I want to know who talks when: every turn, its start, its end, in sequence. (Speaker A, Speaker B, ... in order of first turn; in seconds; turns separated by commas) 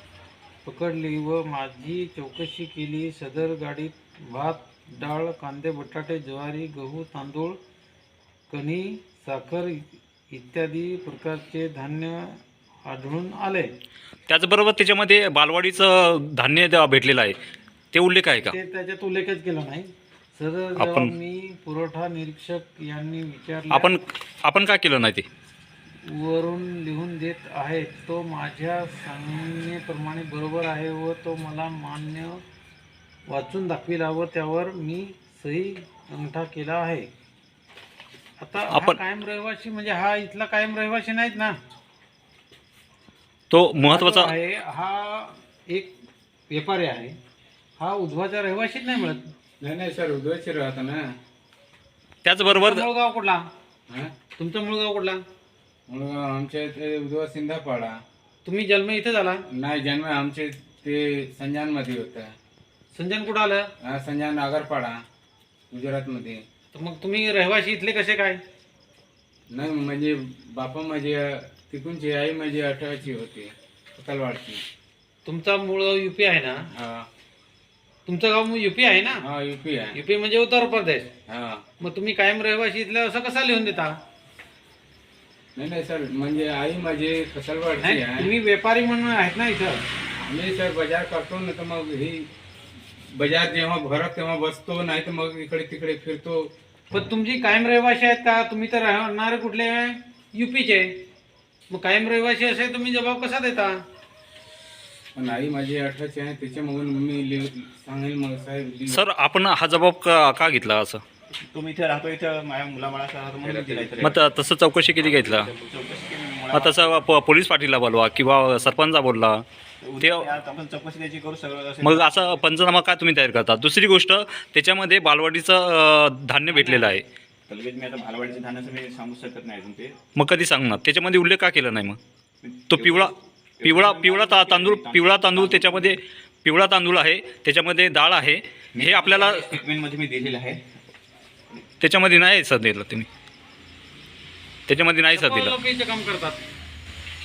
Speaker A: 0.7-7.6, Speaker A: 8.5-13.7, Speaker B: 14.3-17.4, Speaker B: 17.9-18.6, Speaker A: 18.4-23.9, Speaker B: 20.8-21.1, Speaker B: 23.7-25.3, Speaker A: 26.1-32.4, Speaker A: 33.3-37.1, Speaker A: 38.4-41.6, Speaker B: 38.7-39.0, Speaker B: 43.5-44.3, Speaker A: 43.9-46.0, Speaker A: 46.5-47.2, Speaker A: 47.8-49.3, Speaker C: 49.6-51.2, Speaker B: 52.2-52.9, Speaker A: 52.5-53.5, Speaker C: 53.9-54.1, Speaker A: 54.4-55.2, Speaker C: 55.9-58.0, Speaker A: 58.5-59.4, Speaker C: 59.5-62.4, Speaker A: 62.9-63.7, Speaker C: 63.8-65.0, Speaker C: 65.7-66.4, Speaker A: 66.7-68.4, Speaker C: 69.5-74.6, Speaker A: 75.2-76.7, Speaker C: 76.7-77.1, Speaker A: 78.1-79.2, Speaker C: 79.2-80.0, Speaker A: 79.9-81.1, Speaker C: 81.3-81.7, Speaker A: 81.8-84.0, Speaker C: 85.5-88.3, Speaker A: 87.8-89.8, Speaker C: 90.2-92.3, Speaker C: 93.0-96.5, Speaker A: 96.9-101.0, Speaker A: 101.7-103.8, Speaker C: 105.2-109.0, Speaker B: 108.9-111.0, Speaker D: 111.5-114.3, Speaker C: 113.4-113.9, Speaker B: 114.0-115.5, Speaker D: 115.0-117.0, Speaker B: 116.5-119.4, Speaker D: 119.8-122.5, Speaker B: 120.0-120.3, Speaker B: 121.8-127.0, Speaker D: 126.5-127.0, Speaker D: 127.5-130.0, Speaker B: 130.2-132.0, Speaker D: 132.4-136.0, Speaker B: 132.7-139.6, Speaker D: 138.7-140.7, Speaker B: 141.8-143.1, Speaker B: 144.7-145.6, Speaker A: 145.1-146.4